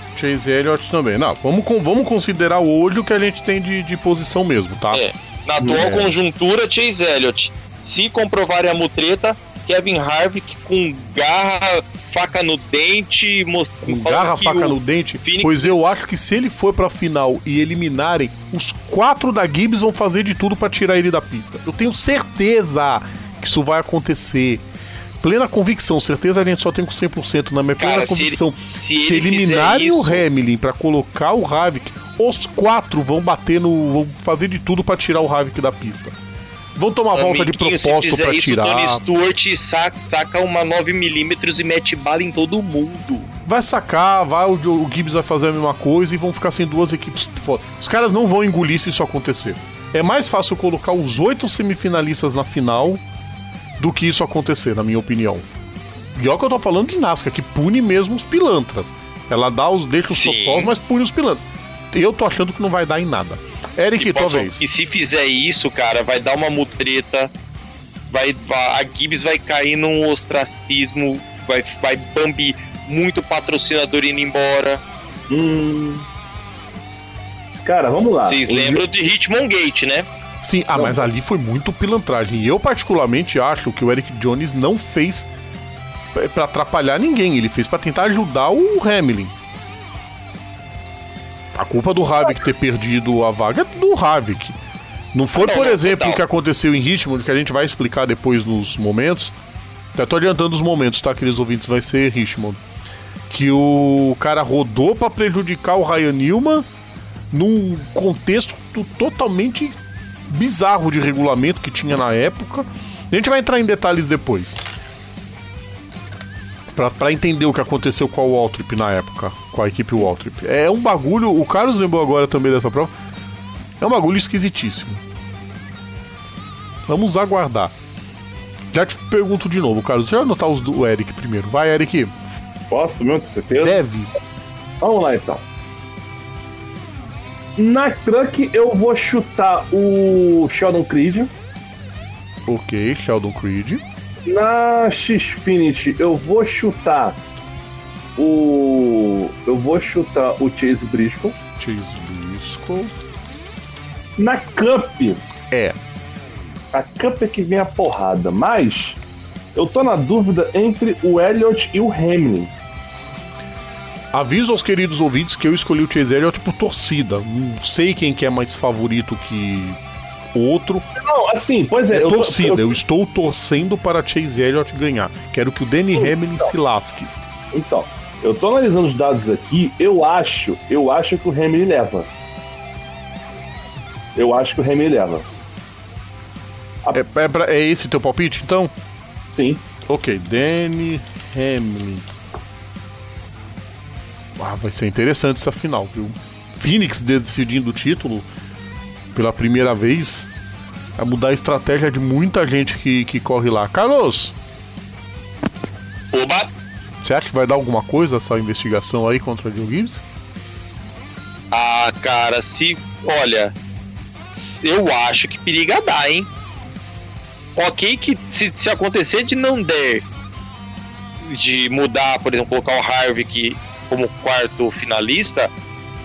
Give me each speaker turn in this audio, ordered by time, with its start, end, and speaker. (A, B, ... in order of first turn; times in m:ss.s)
0:00.1-0:05.0 A
0:04.9-0:15.7 B
0:05.6-0:06.0 C
0:13.8-0:24.6 A
0:25.2-0:36.1 A
0:27.8-0:30.2 B
0:36.7-0:39.0 A
0:37.1-0:43.3 B
0:43.4-0:53.0 A
0:53.8-0:55.4 A
0:56.2-1:04.6 A
1:00.1-1:00.7 B
1:04.0-1:07.3 B
1:08.1-1:14.8 B
1:15.3-1:16.0 C
1:17.6-1:18.8 C
1:18.3-1:20.1 B
1:20.4-1:25.3 A
1:20.8-1:21.0 C
1:26.1-1:29.3 A
1:31.5-1:34.6 A
1:35.1-1:39.3 A
1:35.3-1:36.2 B
1:39.9-1:42.6 A
1:43.3-1:46.6 A
1:47.3-1:49.8 A
1:50.3-1:54.6 A
1:56.7-2:02.9 A
2:03.8-2:05.0 A
2:06.9-2:07.7 A
2:08.7-2:12.1 A
2:12.7-2:13.8 C
2:13.6-2:14.1 A
2:14.8-2:15.4 C
2:17.6-2:21.3 C
2:22.5-2:23.8 A
2:24.2-2:27.2 C
2:28.2-2:31.4 C
2:31.6-2:32.9 A
2:34.2-2:35.2 C
2:35.5-2:35.8 A
2:36.7-2:39.0 C
2:39.5-2:42.5 C
2:44.1-2:49.8 A
2:50.3-2:50.8 A
2:51.0-2:52.8 C
2:51.9-2:57.1 A
2:55.9-2:56.5 C
2:57.5-3:02.1 C
3:04.2-3:05.2 C
3:06.9-3:08.7 A
3:09.3-3:09.6 C
3:09.8-3:12.1 A
3:14.4-3:18.3 A
3:19.1-3:20.3 A
3:21.0-3:24.3 A
3:26.1-3:26.5 B
3:27.0-3:30.0 A
3:31.5-3:33.5 B
3:34.5-3:36.3 B
3:37.6-3:40.0 B
3:41.2-3:45.5 B